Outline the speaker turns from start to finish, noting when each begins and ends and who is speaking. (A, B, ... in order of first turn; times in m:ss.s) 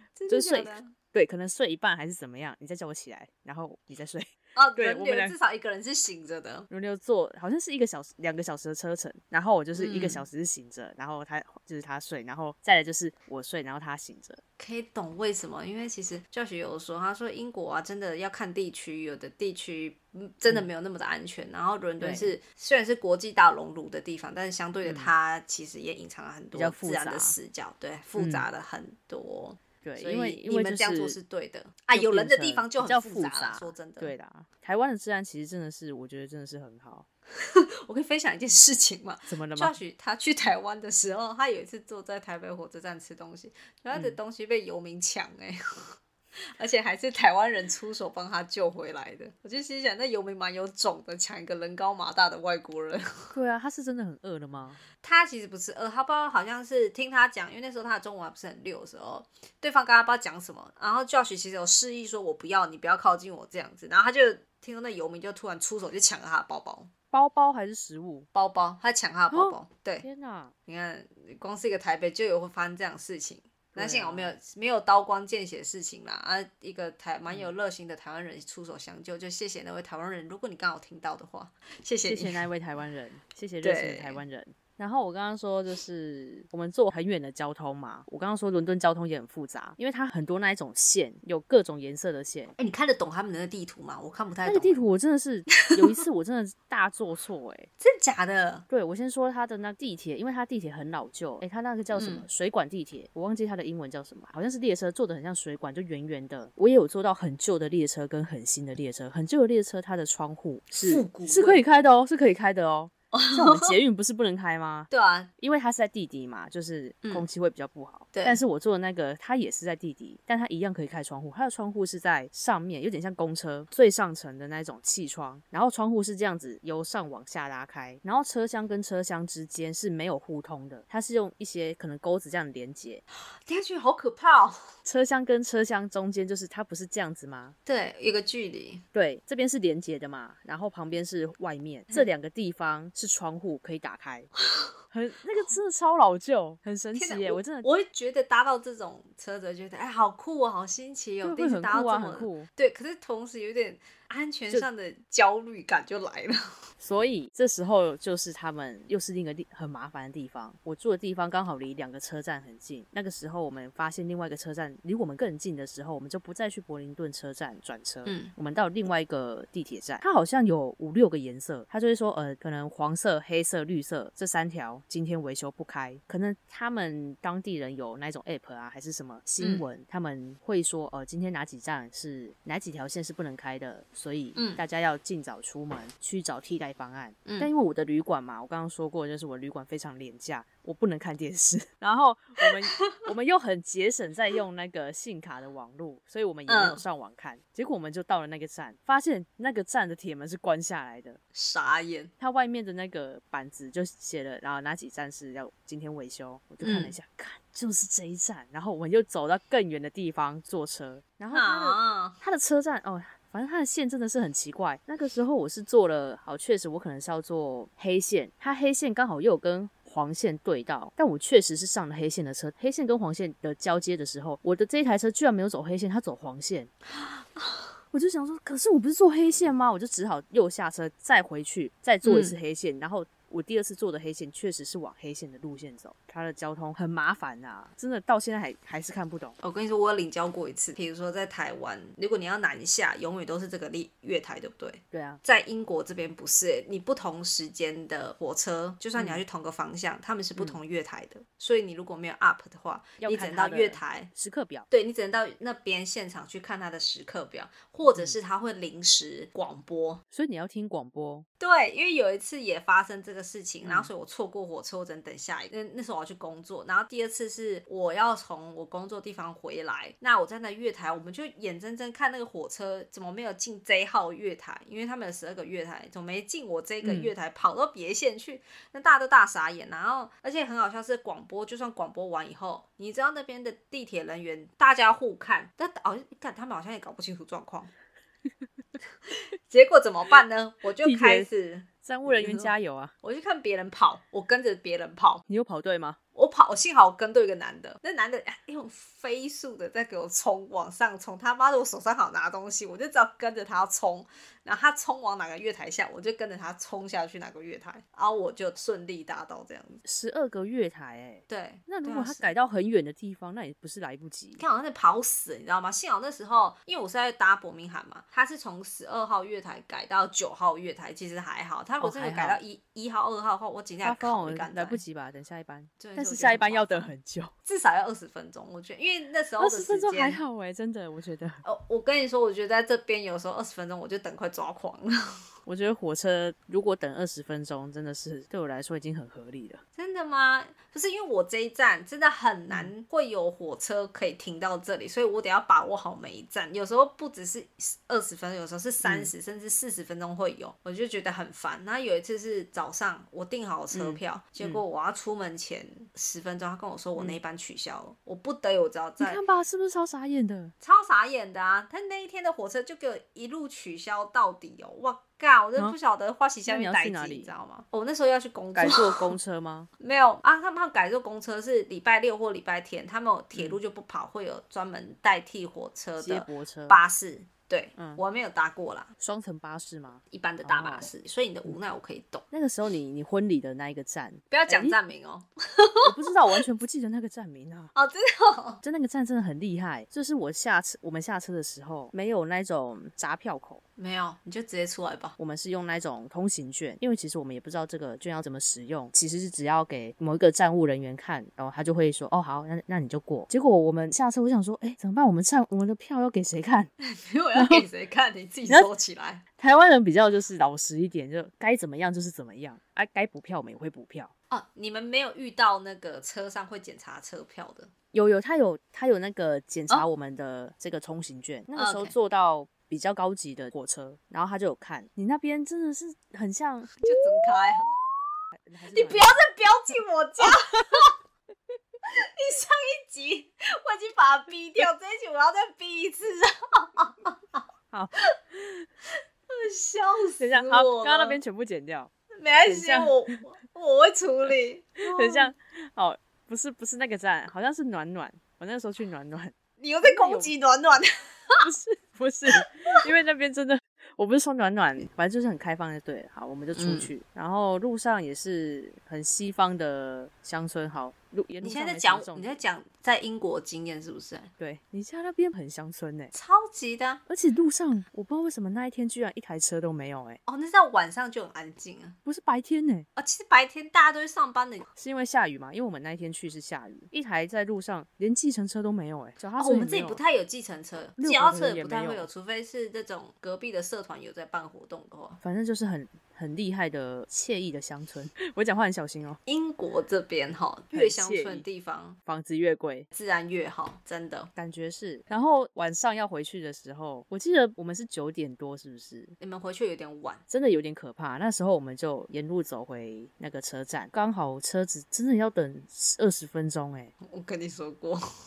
0:00.1-0:00.9 A
0:00.3-0:05.3 B
0:04.6-0:06.7 A
0:06.7-0:14.4 B
0:09.8-0:10.2 A
0:14.6-0:34.1 A
0:22.0-0:22.4 B
0:24.8-0:25.1 B
0:26.5-0:27.4 B
0:28.2-0:28.4 B
0:29.8-0:31.2 B
0:31.9-0:37.0 B
0:37.4-0:45.9 A
0:39.3-0:39.8 B
0:43.9-0:44.2 B
0:46.6-0:53.3 A
0:53.3-0:54.8 B
0:55.0-1:06.9 A
1:07.1-1:08.3 B
1:08.3-1:10.0 A
1:09.3-1:10.5 B
1:10.7-1:22.4 A
1:13.7-1:14.3 B
1:22.0-1:32.5 B
1:23.6-1:24.2 A
1:32.6-1:34.8 A
1:34.4-1:37.7 B
1:37.8-1:38.6 A
1:38.7-2:13.0 B
1:41.9-1:42.2 A
1:50.7-1:51.6 A
1:53.1-1:53.8 A
1:54.9-1:55.3 A
1:58.1-1:58.4 A
2:13.4-2:14.7 A
2:14.8-2:17.5 B
2:17.6-2:18.8 A
2:18.9-2:24.3 B
2:24.9-2:27.7 B
2:26.9-2:36.4 A
2:31.2-2:32.5 B
2:36.8-3:21.2 B
2:48.0-2:48.3 A
2:59.4-2:59.6 A
3:04.4-3:04.6 A
3:07.2-3:07.5 A
3:16.5-3:16.8 A
3:21.3-3:22.1 A
3:22.2-3:46.7 B
3:26.6-3:26.9 A
3:31.3-3:32.2 A
3:47.1-3:47.6 A
3:47.9-3:59.4 B
3:52.0-3:52.3 A
3:59.4-4:14.1 A
4:04.9-4:05.2 B
4:09.0-4:09.2 B
4:13.0-4:14.7 B
4:14.7-4:20.0 A
4:20.1-4:21.2 B
4:21.4-4:47.7 A
4:23.6-4:23.9 B
4:36.8-4:37.1 B
4:49.1-4:52.5 A
4:50.8-4:51.3 B
4:51.8-4:52.9 B
4:53.0-4:55.2 A
4:55.3-4:56.0 B
4:56.1-5:09.8 A
5:09.8-5:14.4 B
5:11.3-5:12.3 A
5:14.4-5:24.8 A
5:21.8-5:22.4 B
5:23.8-5:27.3 B
5:25.8-5:26.9 A
5:27.4-5:30.2 A
5:29.4-5:31.4 B
5:31.4-5:34.9 A
5:35.4-5:39.6 B
5:39.8-5:59.2 A
5:48.8-5:49.1 B
5:53.7-5:54.6 B
5:59.0-6:00.5 B
6:00.6-6:09.1 A
6:06.4-6:07.3 B
6:08.5-6:09.7 B
6:09.8-6:18.9 A
6:13.3-6:13.6 B
6:16.0-6:16.8 B
6:17.8-6:18.0 B
6:19.0-6:20.9 B
6:20.1-6:22.2 A
6:22.3-6:24.8 B
6:24.3-6:26.4 A
6:25.8-6:27.7 B
6:27.7-6:28.6 A
6:28.6-6:33.6 B
6:33.8-6:35.2 A
6:35.2-6:46.7 B
6:46.8-6:49.2 A
6:47.4-6:47.6 B
6:49.4-6:54.1 B
6:54.3-6:57.7 A
6:57.9-7:06.8 B
7:01.5-7:01.9 A
7:06.8-7:07.7 A
7:08.4-7:09.2 B
7:08.7-7:10.9 A
7:11.9-7:17.4 A
7:17.7-7:18.6 B
7:19.3-7:21.2 A
7:20.2-7:21.9 B
7:22.2-7:25.3 A
7:22.4-7:22.9 B
7:24.8-7:30.3 B
7:29.6-7:31.4 A
7:31.4-7:42.4 B
7:36.5-7:36.9 A
7:41.4-7:44.3 A
7:44.4-7:46.1 B
7:46.1-7:47.0 A
7:47.1-7:50.2 B
7:50.3-7:52.0 A
7:52.0-7:52.9 B
7:53.0-7:54.7 A
7:54.8-8:00.0 B
7:59.4-8:05.2 A
8:01.0-8:02.1 B
8:05.2-8:09.2 B
8:09.2-8:12.0 A
8:10.7-8:11.4 B
8:12.0-8:12.9 B
8:12.9-8:14.3 A
8:14.4-8:19.1 B
8:19.2-8:20.2 A
8:20.3-8:26.9 B
8:27.0-8:28.0 A